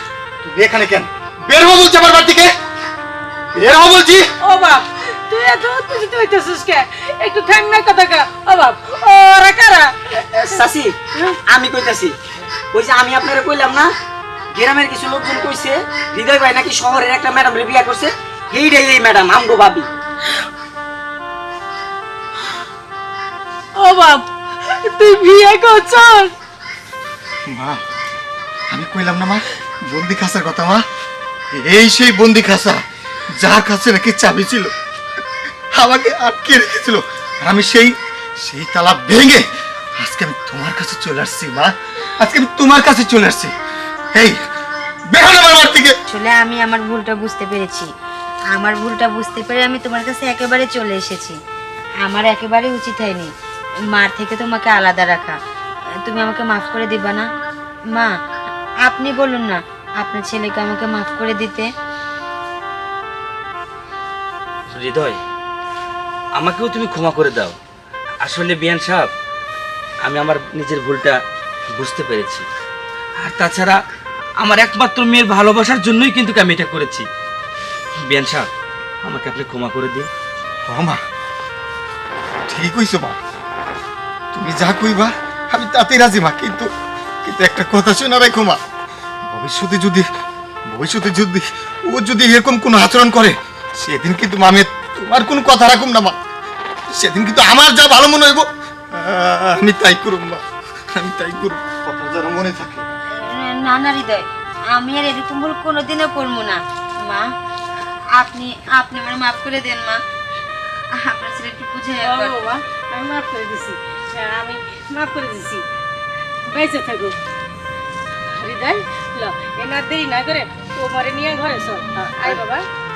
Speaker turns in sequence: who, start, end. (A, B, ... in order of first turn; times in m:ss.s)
0:00.4-0:02.5 A
0:03.5-0:04.3 A
0:04.4-0:09.9 B
0:10.1-0:11.0 C
0:11.5-0:12.1 C
0:12.7-0:13.9 C
0:14.5-0:19.9 C
0:23.8-0:26.3 B
0:27.5-0:27.8 A
0:28.7-0:30.8 A
0:31.5-0:34.7 A
0:35.7-0:43.5 A
0:44.1-0:44.4 A
0:45.1-0:46.0 A
0:46.1-0:47.9 D
0:48.5-0:51.4 D
0:52.0-0:53.3 D
0:53.9-0:55.4 D
0:56.0-0:57.3 D
0:58.8-1:01.7 D
1:04.7-1:05.2 E
1:06.4-1:07.6 E
1:08.2-1:09.1 E
1:10.0-1:11.2 E
1:11.7-1:12.4 E
1:13.2-1:13.8 E
1:14.4-1:17.1 E
1:18.0-1:18.5 E
1:19.0-1:20.1 E
1:20.6-1:21.0 A
1:22.5-1:23.2 A
1:24.3-1:26.7 A
1:27.2-1:28.6 A
1:29.3-1:30.1 A
1:30.7-1:36.2 A
1:36.9-1:40.4 A
1:41.0-1:42.8 A
1:43.2-1:47.3 D
1:48.1-1:50.0 D
1:50.9-1:52.4 D
1:52.0-1:55.6 B
1:56.5-1:57.2 B
1:58.3-2:02.6 B
2:02.0-2:02.4 C